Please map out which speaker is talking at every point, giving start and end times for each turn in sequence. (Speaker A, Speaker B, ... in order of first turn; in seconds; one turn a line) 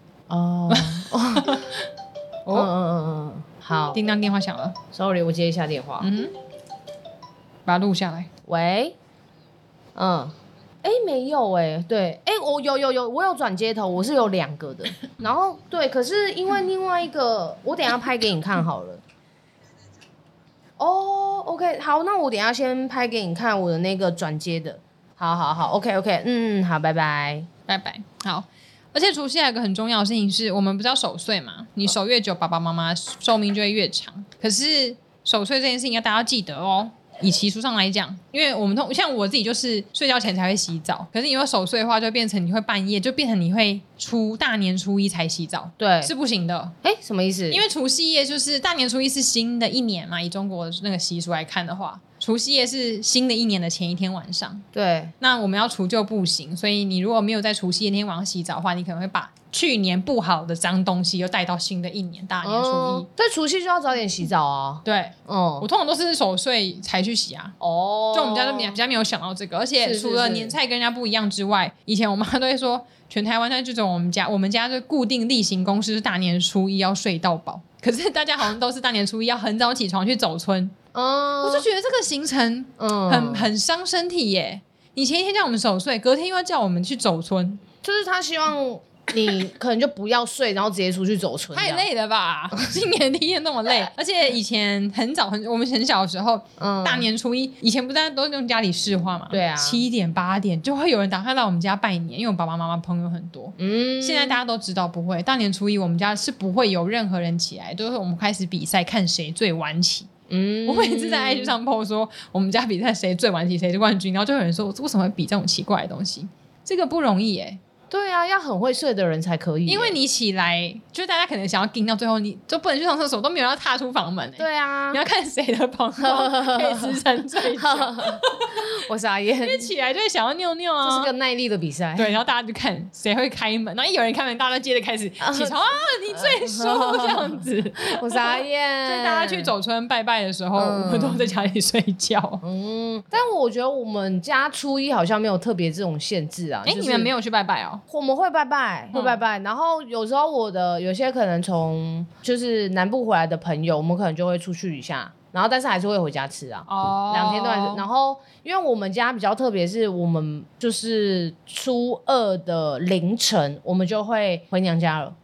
Speaker A: 0.3-1.6
Speaker B: 0.7-1.9
Speaker A: 2.5-4.0
Speaker B: 3.9-4.8
Speaker A: 4.9-6.1
Speaker B: 6.0-6.3
Speaker B: 7.7-8.3
Speaker A: 8.5-8.9
Speaker A: 9.9-19.0
Speaker A: 20.8-27.5
Speaker B: 27.7-46.7
Speaker A: 45.8-46.1
Speaker A: 46.8-47.6
Speaker B: 47.5-54.6
Speaker A: 54.7-55.1
Speaker B: 55.2-63.1
Speaker A: 62.4-65.7
Speaker B: 64.8-67.5
Speaker A: 67.6-68.8
Speaker B: 68.1-80.7
Speaker A: 69.8-70.5
Speaker A: 80.9-81.7
Speaker B: 81.4-87.6
Speaker A: 82.8-83.5
Speaker A: 87.8-91.8
Speaker B: 91.5-110.1
Speaker A: 96.6-97.1
Speaker A: 99.3-99.8
Speaker A: 103.6-104.4
Speaker A: 110.3-111.5
Speaker B: 110.7-117.6
Speaker A: 117.9-120.0
Speaker B: 119.7-128.7
Speaker A: 124.4-125.0
Speaker A: 126.0-129.7
Speaker B: 129.4-131.1
Speaker A: 130.8-132.1
Speaker B: 131.9-142.4
Speaker A: 135.2-139.5
Speaker A: 140.6-141.2
Speaker A: 142.4-147.1
Speaker B: 146.6-147.8
Speaker A: 147.9-165.1
Speaker B: 148.9-149.2
Speaker B: 156.7-157.8